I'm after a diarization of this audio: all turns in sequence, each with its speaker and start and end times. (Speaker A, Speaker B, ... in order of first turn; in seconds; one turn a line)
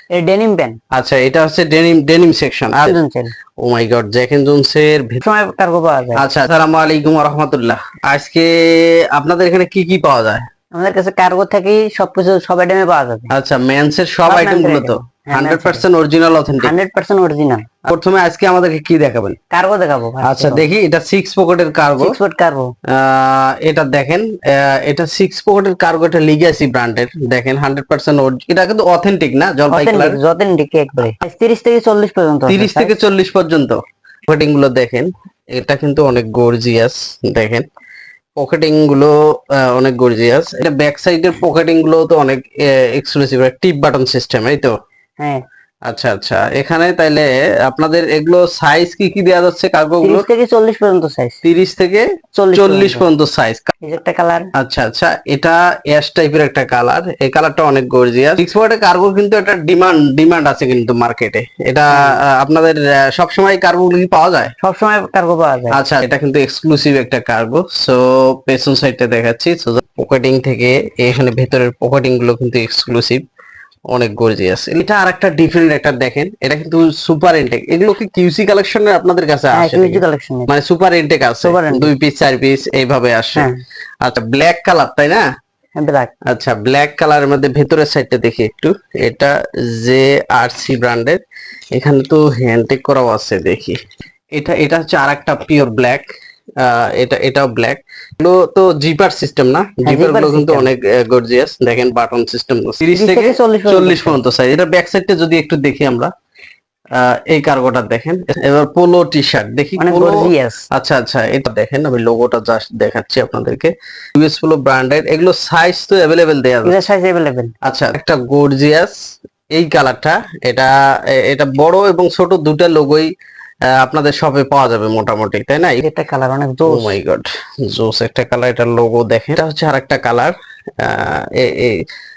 Speaker A: 0.1-0.8
Speaker B: 0.9-3.0
Speaker A: 2.8-3.3
Speaker B: 3.6-5.2
Speaker A: 5.2-6.2
Speaker B: 6.2-10.5
Speaker A: 10.7-13.3
Speaker B: 13.3-16.7
Speaker A: 14.3-15.8
Speaker A: 16.6-17.7
Speaker B: 17.9-19.4
Speaker A: 19.5-20.6
Speaker B: 20.2-22.2
Speaker A: 22.0-22.7
Speaker B: 22.9-30.2
Speaker A: 29.7-32.9
Speaker B: 32.5-37.6
Speaker B: 38.4-44.7
Speaker B: 45.9-50.3
Speaker A: 50.0-51.4
Speaker B: 51.4-53.8
Speaker A: 52.3-53.0
Speaker A: 53.8-54.5
Speaker B: 54.6-64.5
Speaker A: 61.9-62.2
Speaker A: 64.6-65.8
Speaker B: 65.7-73.2
Speaker B: 73.9-83.5
Speaker A: 79.5-80.5
Speaker A: 81.4-81.9
Speaker B: 84.0-85.2
Speaker A: 85.8-86.1
Speaker B: 86.3-91.2
Speaker B: 91.8-93.8
Speaker B: 94.4-96.1
Speaker B: 96.6-106.1
Speaker A: 99.8-100.7
Speaker A: 102.9-104.2
Speaker B: 107.0-116.9
Speaker A: 109.8-110.7
Speaker A: 116.6-117.5
Speaker B: 117.6-119.0
Speaker B: 119.5-123.1
Speaker B: 123.8-125.8
Speaker A: 125.8-127.0
Speaker B: 126.7-131.8